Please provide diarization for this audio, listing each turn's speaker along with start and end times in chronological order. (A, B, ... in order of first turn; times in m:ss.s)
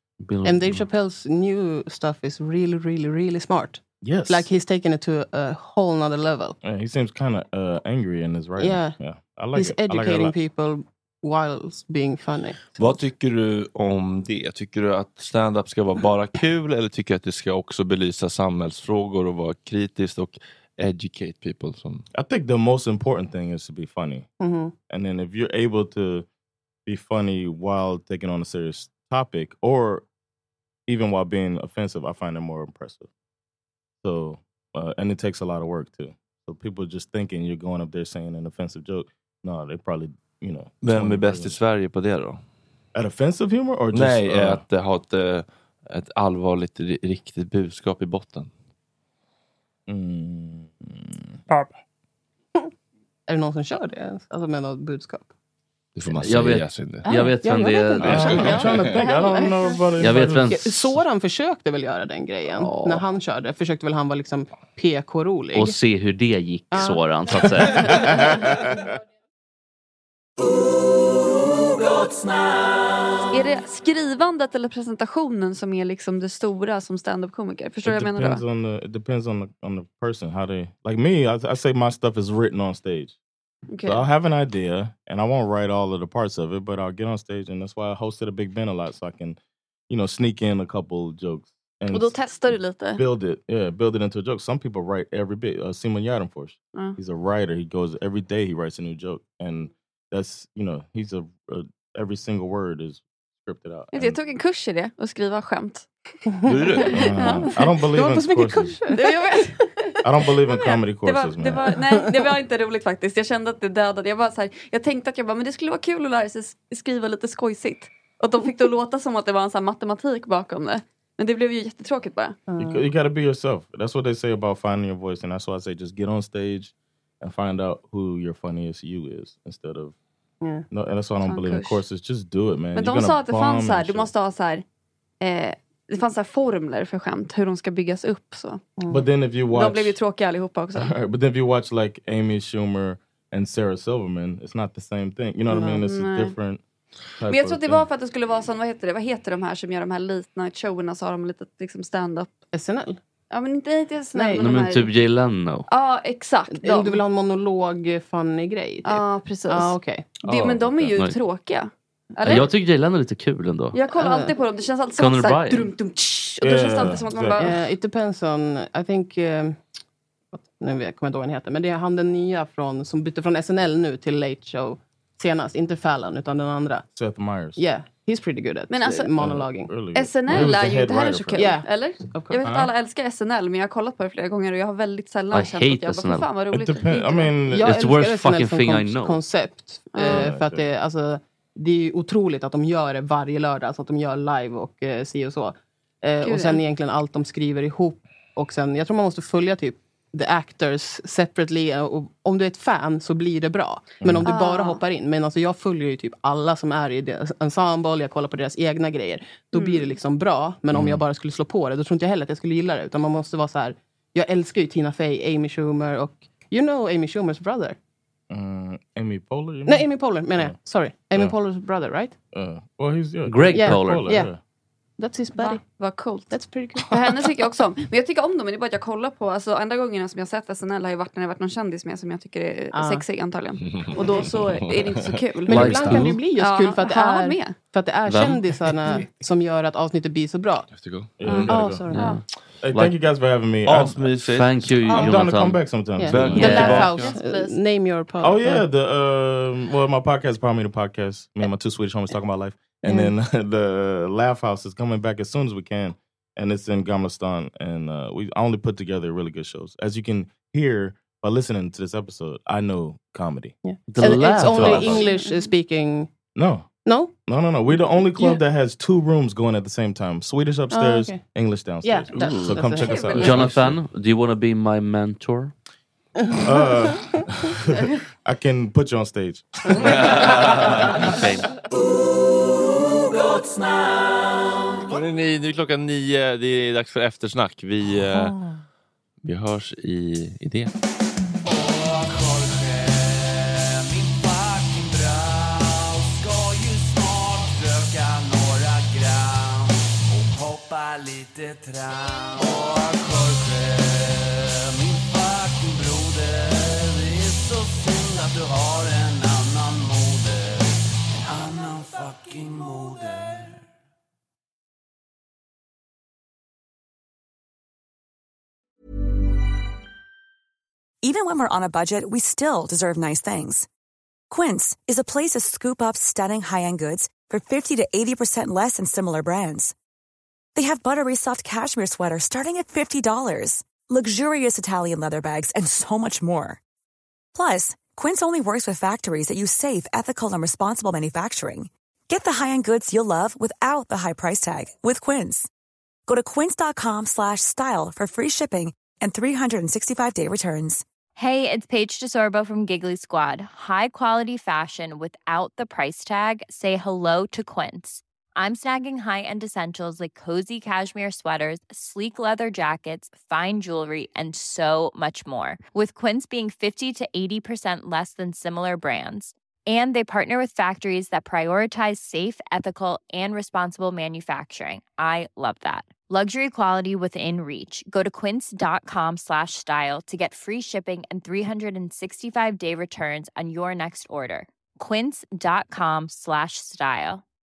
0:00.2-0:00.8 A
0:00.4-0:06.6 B
0:04.0-0:04.5 C
0:06.6-0:10.4 C
0:08.6-0:09.0 B
0:09.5-0:13.0 B
0:12.8-0:22.0 D
0:22.1-0:24.3 C
0:24.4-0:24.7 B
0:24.9-0:26.2 C
0:26.8-0:30.0 C
0:30.9-0:33.1 C
0:34.0-0:41.6 C
0:40.8-0:42.4 D
0:42.9-0:44.6 C
0:43.9-0:48.5 D
0:49.9-0:51.4 C
0:53.3-0:55.3 B
0:56.0-0:57.1 D
0:56.2-0:58.4 A
0:57.0-0:57.3 E
0:57.1-0:58.5 B
0:58.0-0:59.0 D
0:58.0-1:00.7 C
0:58.3-0:59.8 E
1:00.0-1:00.9 A
1:00.4-1:05.8 B
1:02.6-1:03.0 A
1:05.5-1:08.0 A
1:06.7-1:07.0 B
1:07.7-1:08.8 C
1:12.0-1:12.3 F
1:13.3-1:18.4 E
1:17.8-1:23.2 C
1:23.7-1:24.0 E
1:23.8-1:29.4 C
1:29.9-1:44.2 C
1:31.9-1:33.0 E
1:43.9-1:45.9 E
1:46.3-1:47.0 B
1:46.4-1:47.0 D
1:46.8-1:47.5 E
1:46.9-1:48.8 C
1:47.5-1:49.5 B
1:48.9-1:49.7 E
1:50.0-1:51.7 C
1:50.3-2:02.4 E
1:51.8-1:52.2 B
2:02.5-2:02.9 B
2:02.6-2:09.9 C
2:10.4-2:10.6 B
2:10.7-2:14.1 C
2:11.2-2:11.8 E
2:12.7-2:14.6 E
2:15.2-2:18.6 E
2:18.8-2:19.1 B
2:18.9-2:20.0 C
2:19.5-2:20.9 E
2:20.7-2:26.6 C
2:25.5-2:25.8 B
2:25.6-2:26.3 E
2:27.2-2:27.9 C
2:27.2-2:32.3 E
2:32.5-2:33.0 B
2:33.3-2:34.9 E
2:34.1-2:34.7 B
2:34.3-2:35.6 A
2:35.7-2:37.0 E
2:36.5-2:40.1 B
2:38.8-2:42.5 E
2:40.2-2:41.0 C
2:42.2-2:43.7 A
2:43.7-2:47.6 E
2:43.9-2:44.3 B
2:45.0-2:45.7 A
2:46.4-2:47.5 C
2:47.4-2:49.6 B
2:50.3-2:56.8 B
2:56.9-2:57.6 C
2:57.6-2:59.8 B
2:58.7-2:59.1 E
2:59.2-3:01.5 C
2:59.9-3:07.4 E
3:01.4-3:02.4 B
3:02.4-3:02.7 C
3:05.3-3:06.3 A
3:06.5-3:07.7 C
3:07.4-3:37.8 B
3:07.6-3:09.2 A
3:09.9-3:10.3 E
3:10.0-3:10.7 C
3:16.2-3:16.6 E
3:24.0-3:24.3 C
3:24.2-3:24.8 E
3:29.5-3:29.9 E
3:30.7-3:31.0 C
3:38.3-3:40.6 C
3:39.6-3:42.1 B
3:42.3-3:44.4 C
3:43.2-3:44.2 A
3:43.5-3:44.3 B
3:45.0-3:45.6 B
3:45.4-3:57.6 E
3:46.3-3:47.2 B
3:52.7-3:53.0 B
3:53.7-3:55.1 D
3:55.4-4:00.7 B
3:55.5-3:56.2 A
3:58.0-3:58.4 A
4:00.7-4:01.6 D
4:01.2-4:01.9 C
4:01.3-4:02.2 E
4:01.5-4:02.1 B
4:01.9-4:02.9 A
4:02.6-4:04.0 C
4:03.6-4:05.3 D
4:04.3-4:06.9 A
4:04.9-4:06.7 C
4:06.0-4:08.6 B
4:06.1-4:07.1 D
4:06.4-4:07.6 E
4:08.2-4:23.5 C
4:12.8-4:13.1 B
4:23.6-4:26.1 B
4:23.9-4:25.0 A
4:24.3-4:25.1 C
4:24.9-4:25.4 E
4:26.3-4:26.7 C
4:26.8-4:27.2 B
4:27.2-4:33.8 C
4:27.7-4:28.4 B
4:30.7-4:31.2 B
4:31.8-4:33.0 B
4:32.8-4:33.5 E
4:33.1-4:35.5 A
4:36.2-4:37.2 B
4:36.4-4:41.0 C
4:39.8-4:41.1 D
4:41.0-4:41.4 A
4:42.8-4:44.4 F
4:44.8-4:48.4 D
4:49.2-4:50.7 D
4:51.4-5:13.6 F
5:21.0-5:23.7 G
5:24.3-5:29.7 G
5:30.5-5:36.6 G
5:37.3-5:45.5 G
5:46.1-5:50.8 G
5:51.2-6:27.2 H